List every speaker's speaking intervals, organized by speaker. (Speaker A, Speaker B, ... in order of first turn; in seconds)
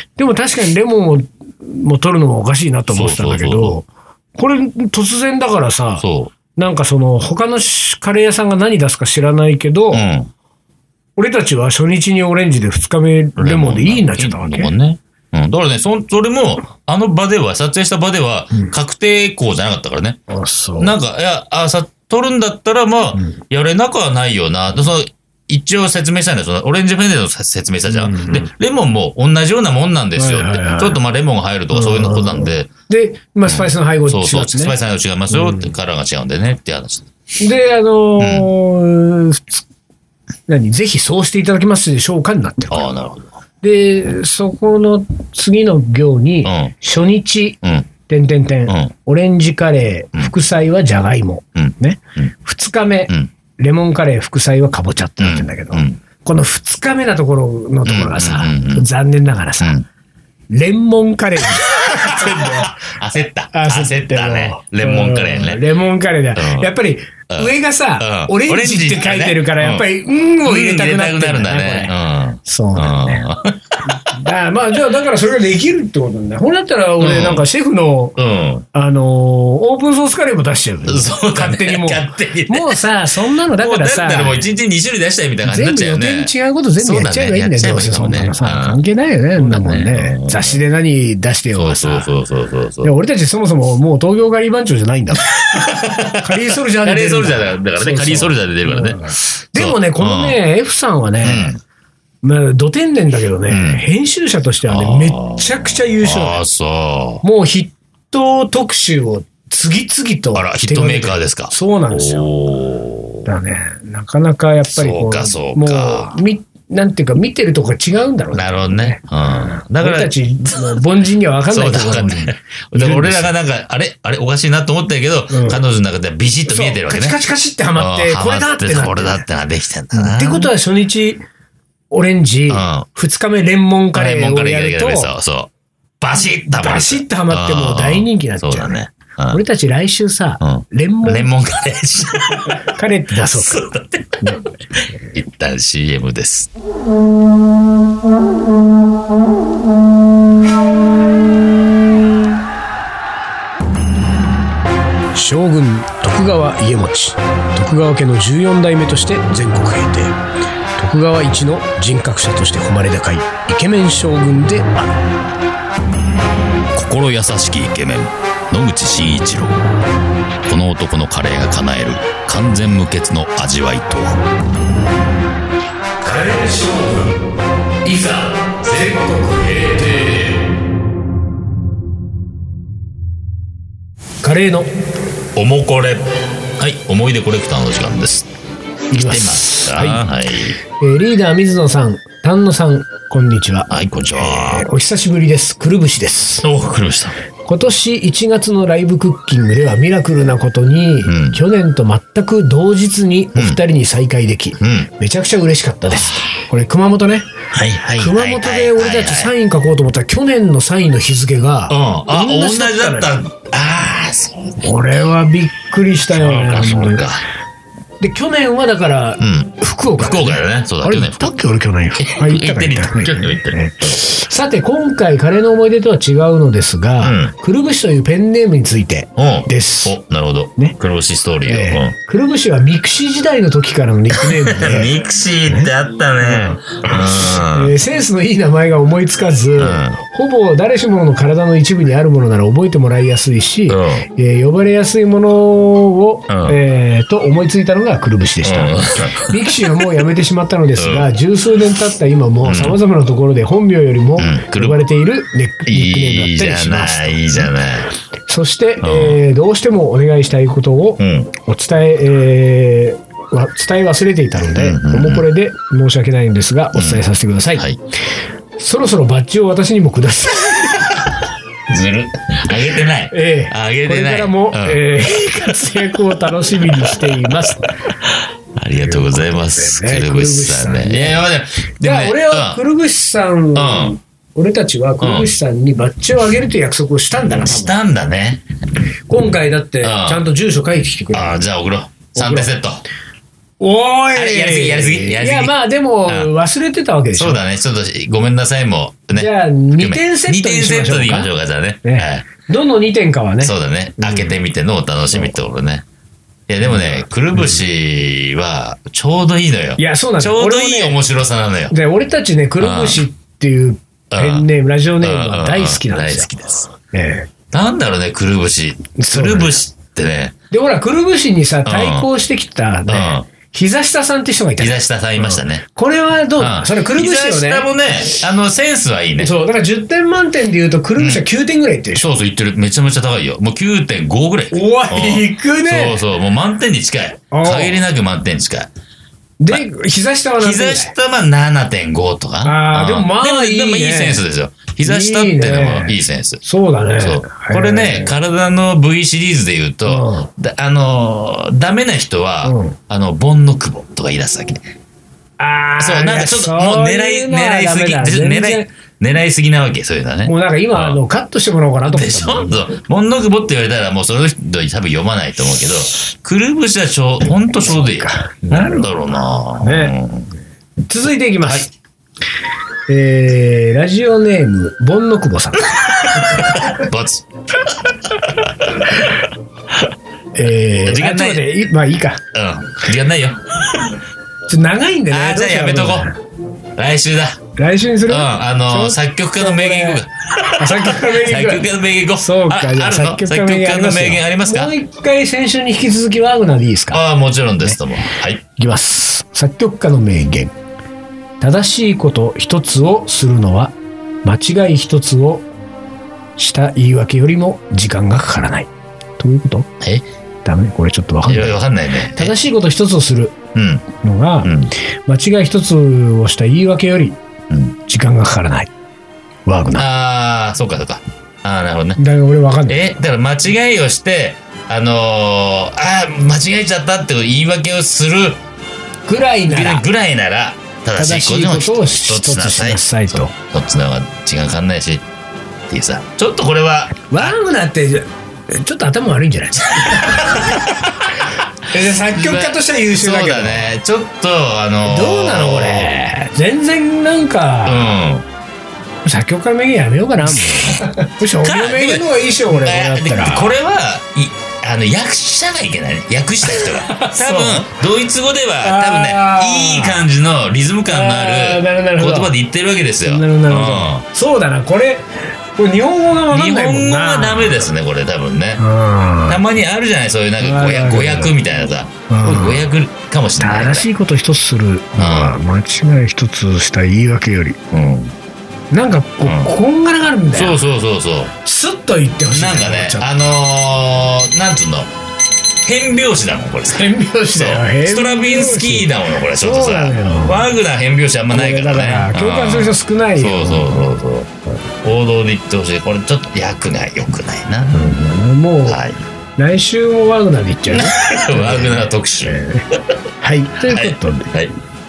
Speaker A: 0.2-10.1, 11.2-14.7, 20.3-20.9, 27.9-28.5, 30.2-31.0, 31.7-34.8, 35.3-35.7, 37.4-39.6, 40.5-42.9, 43.6-59.8, 60.5-62.8, 63.5-73.2, 73.9-78.2, 78.7-84.5, 85.4-92.1, 92.8-101.5, 102.2-106.4, 107.2-112.3, 113.2-123.3, 125.3-125.6, 126.5-129.2, 129.9-131.2, 131.9-135.1, 136.6-138.8, 139.3-141.3, 142.7-143.7, 144.2-144.5, 155.1-160.2, 160.8-164.8, 176.1-177.1, 184.2-184.7, 188.9-190.1, 190.8-196.5, 197.5-207.3, 208.0-213.2, 214.6-217.1, 218.0-230.0, 231.4-234.9, 235.5-235.7, 236.2-257.5, 258.3-267.7, 268.6-271.1, 273.1-277.7, 278.8-281.2, 281.8-287.8, 289.1-291.4, 292.1-292.5, 293.6-297.4, 299.1-301.3, 301.8-304.3, 309.8-311.0, 311.7-317.3, 319.0-319.6, 320.5-327.7, 329.2-332.1, 334.5-336.0, 337.3-337.8, 339.4-340.9, 342.4-344.2, 344.9-348.1, 349.9-350.3, 352.4-352.8, 355.4-358.7, 360.2-362.6, 367.7-368.9, 369.6-369.9, 370.9-371.7, 372.9-376.7, 380.4-382.2, 384.5-386.2, 387.6-397.0, 398.6-400.6, 401.4-405.5, 406.4-409.7, 410.4-411.6, 412.1-413.4, 414.0-417.2, 417.9-418.7, 419.5-419.9, 422.0-422.8, 429.1-429.9, 431.0-433.3, 437.1-441.0, 441.6-443.7, 444.9-447.9, 449.1-453.6, 456.4-457.7, 458.6-460.1, 460.9-462.3, 463.0-467.6, 468.6-469.4, 470.4-471.3, 472.1-472.6, 473.4-477.6, 478.7-480.6, 481.4-483.1, 486.7-490.5, 491.3-493.9, 497.7-498.8, 499.4-502.7, 503.2-504.3
Speaker B: 2.9-3.8, 6.0-6.3, 9.9-10.3, 13.4-20.2, 20.8-32.7, 33.5-37.1, 38.2-38.5, 42.7-43.3, 46.4-46.7, 47.6-47.9, 51.6-52.3, 55.2-56.0, 57.9-58.9, 59.6-59.9, 61.5-65.6, 66.4-66.7, 67.3-69.9, 70.4-74.2, 77.0-77.5, 78.2-78.7, 80.9-82.8, 83.4-88.8, 89.4-90.6, 91.5-92.9, 95.5-96.3, 96.8-100.4, 101.2-101.6, 103.5-103.8, 104.7-107.2, 110.3-113.3, 114.7-116.2, 118.3-120.8, 121.5-127.2, 127.8-130.5, 132.5-132.9, 133.9-139.4, 140.4-146.5, 166.7-169.6, 170.5-174.2, 176.0-176.3, 177.8-180.3, 185.3-188.3, 189.0-190.6, 193.7-194.7, 196.4-197.2, 201.1-201.4, 203.3-203.6, 204.6-204.9, 205.9-206.2, 207.5-209.3, 211.7-214.9, 216.1-217.2, 219.2-221.4, 222.0-223.6, 227.0-227.3, 229.2-231.9, 234.1-237.7, 239.6-240.0, 243.7-244.1, 246.3-246.6, 248.4-249.6, 250.8-251.1, 252.4-252.8, 254.2-254.8, 255.7-257.9, 258.8-259.2, 261.0-261.3, 264.4-265.2, 266.7-267.1, 271.7-274.8, 276.7-277.5, 278.1-282.6, 283.6-284.0, 285.0-285.4, 287.2-288.4, 289.8-290.2, 291.1-292.8, 294.1-295.6, 296.1-296.3, 297.1-302.3, 303.4-305.9, 306.5-311.8, 312.6-313.0, 314.1-314.5, 315.0-316.7, 317.5-320.4, 321.7-322.1, 322.9-323.3, 324.6-325.6, 326.4-329.3, 331.0-331.2, 332.0-338.7, 340.4-346.4, 347.0-354.6, 355.8-361.0, 361.9-370.3, 376.1-379.1, 380.9-381.5, 382.3-384.0, 385.1-386.1, 386.8-387.4, 388.1-394.8, 396.9-398.4, 411.3-412.4, 413.6-413.9, 414.4-414.7, 417.5-417.8, 419.8-422.0, 422.7-428.4, 429.5-435.1, 435.7-437.4, 439.8-441.2, 442.1-445.9, 447.6-448.3, 450.4-464.1, 466.3-468.6, 469.3-473.9, 475.0-475.4, 477.7-478.1, 479.2-479.5, 480.3-481.3, 482.3-484.9, 485.6-494.3, 494.8-498.1, 498.7-499.0, 500.7-502.8, 503.6-504.6